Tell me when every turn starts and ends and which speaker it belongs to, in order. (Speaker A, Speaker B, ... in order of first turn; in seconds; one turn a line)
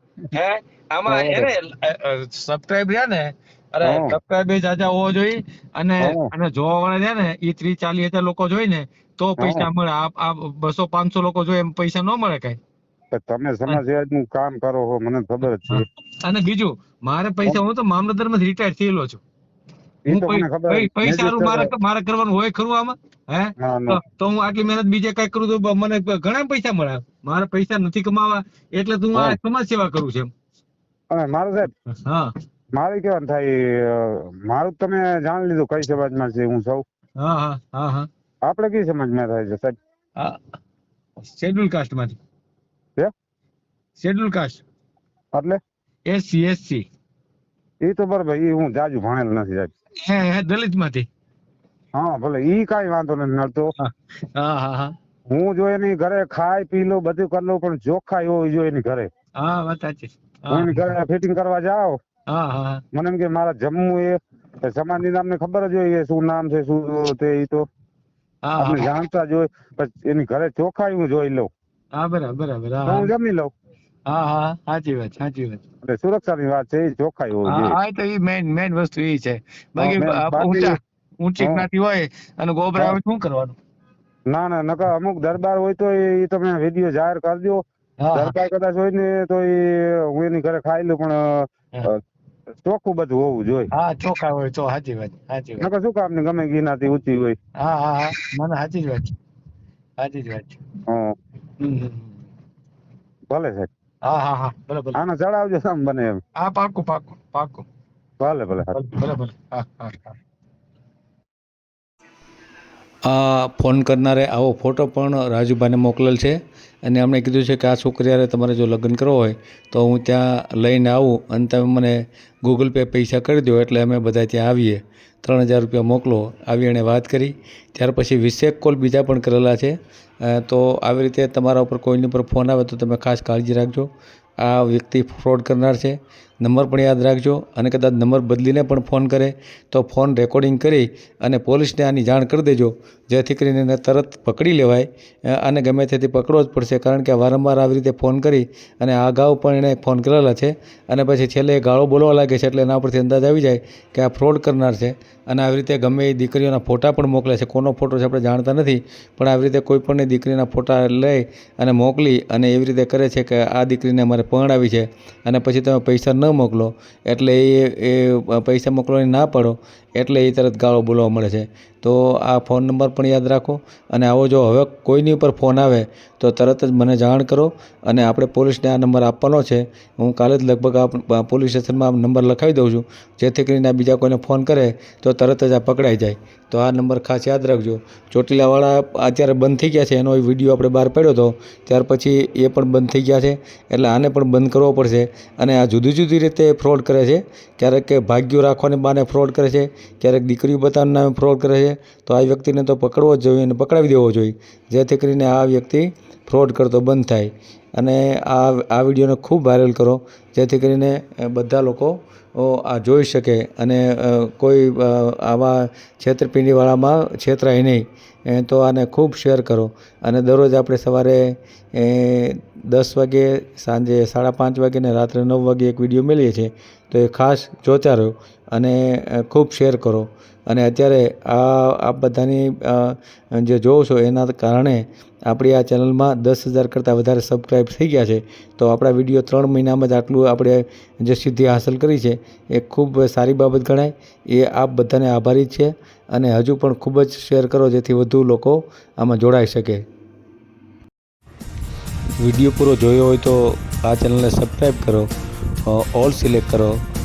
Speaker A: 0.3-12.6
Speaker B: 1.1-1.5
Speaker B: 3.8-4.2
Speaker B: 6.0-6.3
Speaker B: 9.4-9.7
Speaker B: 13.1-15.8
Speaker A: 15.7-19.2
Speaker B: 20.1-21.7
Speaker A: 20.1-30.3
Speaker B: 23.6-24.0
Speaker B: 29.1-29.4
Speaker B: 31.1-31.7
Speaker A: 32.0-32.3
Speaker B: 32.8-36.8
Speaker A: 37.2-38.1
Speaker B: 38.4-39.8
Speaker A: 41.2-42.2
Speaker A: 44.0-44.6
Speaker B: 45.3-45.6
Speaker A: 46.0-46.8
Speaker B: 47.8-49.7
Speaker A: 50.0-51.1
Speaker B: 52.0-53.7
Speaker A: 53.8-54.9
Speaker B: 55.3-59.1
Speaker A: 59.4-60.9
Speaker B: 60.5-62.0
Speaker A: 62.3-62.8
Speaker B: 62.9-67.7
Speaker A: 68.4-68.9
Speaker B: 68.5-71.5
Speaker A: 71.9-73.1
Speaker B: 72.8-73.5
Speaker A: 74.0-75.6
Speaker B: 75.8-77.8
Speaker A: 77.4-83.5
Speaker B: 79.8-80.8
Speaker B: 81.4-81.7
Speaker B: 84.3-92.0
Speaker A: 88.0-88.3
Speaker B: 92.6-93.7
Speaker A: 93.7-95.7
Speaker B: 95.6-97.4
Speaker A: 97.6-99.1
Speaker A: 100.0-100.6
Speaker B: 100.9-101.1
Speaker A: 101.6-102.1
Speaker B: 103.3-103.7
Speaker A: 104.0-105.0
Speaker B: 104.9-106.2
Speaker A: 106.4-107.7
Speaker B: 108.2-108.9
Speaker A: 108.7-110.2
Speaker C: 113.0-133.9
Speaker C: 134.4-249.8
Speaker C: 252.2-255.1
Speaker C: 255.7-256.8